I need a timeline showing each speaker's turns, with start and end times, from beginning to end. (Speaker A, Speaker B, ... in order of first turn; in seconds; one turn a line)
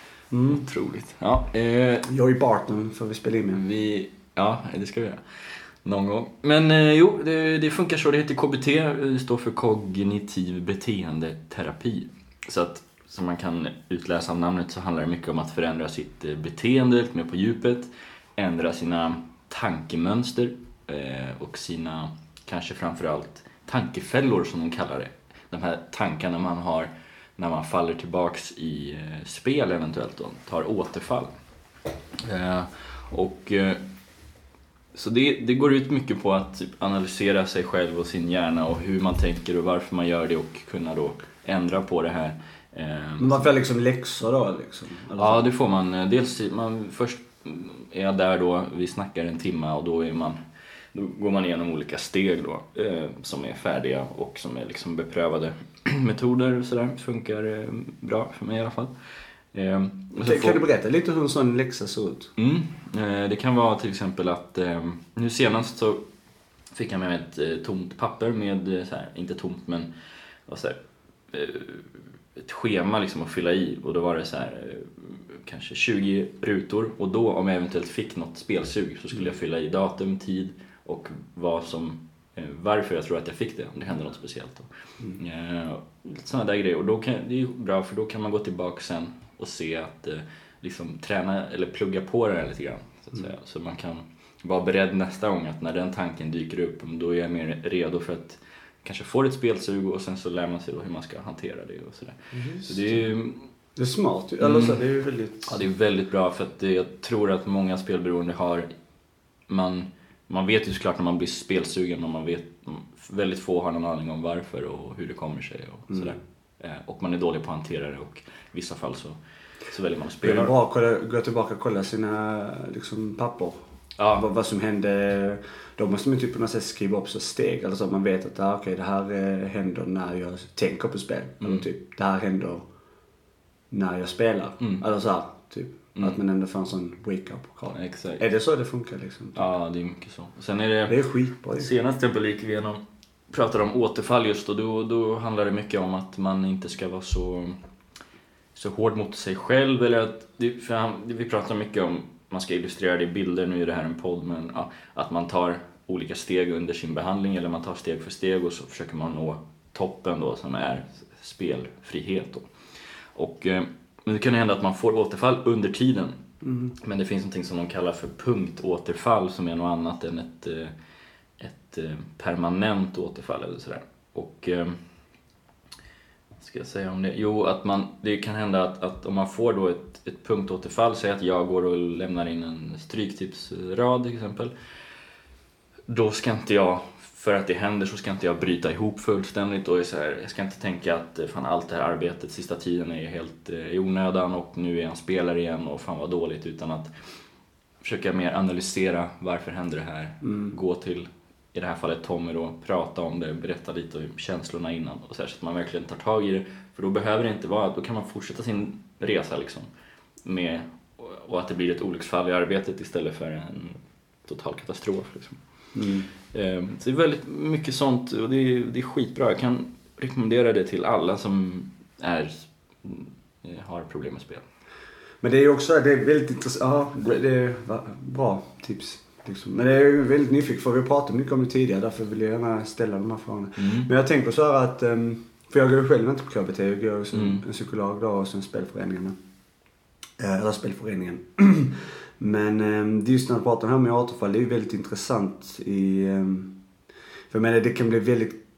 Speaker A: 0.3-0.6
Speaker B: 0.4-2.1
Speaker A: 2.1-3.6
Speaker B: 3.5-31.3
Speaker B: 32.2-33.8
Speaker B: 34.9-43.5
Speaker A: 43.2-45.5
Speaker B: 45.1-50.4
Speaker B: 50.9-58.9
Speaker B: 59.5-60.6
Speaker A: 60.2-62.3
Speaker B: 62.4-66.0
Speaker B: 66.7-69.9
Speaker B: 70.5-70.8
Speaker B: 71.3-103.4
Speaker A: 102.3-102.7
Speaker A: 103.8-105.6
Speaker B: 104.4-104.8
Speaker B: 105.4-108.7
Speaker B: 109.5-119.2
Speaker A: 115.9-116.2
Speaker B: 119.7-120.5
Speaker A: 120.2-123.6
Speaker B: 124.0-124.2
Speaker A: 124.1-132.7
Speaker A: 133.7-139.4
Speaker B: 137.7-138.2
Speaker B: 139.3-141.0
Speaker A: 140.9-141.7
Speaker B: 141.6-147.6
Speaker B: 148.5-162.5
Speaker B: 163.1-166.2
Speaker A: 166.4-166.7
Speaker B: 166.7-170.7
Speaker B: 171.4-174.8
Speaker B: 176.4-184.5
Speaker B: 185.9-196.9
Speaker B: 197.8-209.7
Speaker A: 200.2-200.5
Speaker B: 210.2-215.4
Speaker A: 215.7-216.1
Speaker B: 216.3-224.4
Speaker A: 225.2-239.2
Speaker B: 233.6-233.9
Speaker B: 237.1-237.4
Speaker A: 240.2-246.6
Speaker A: 247.3-248.4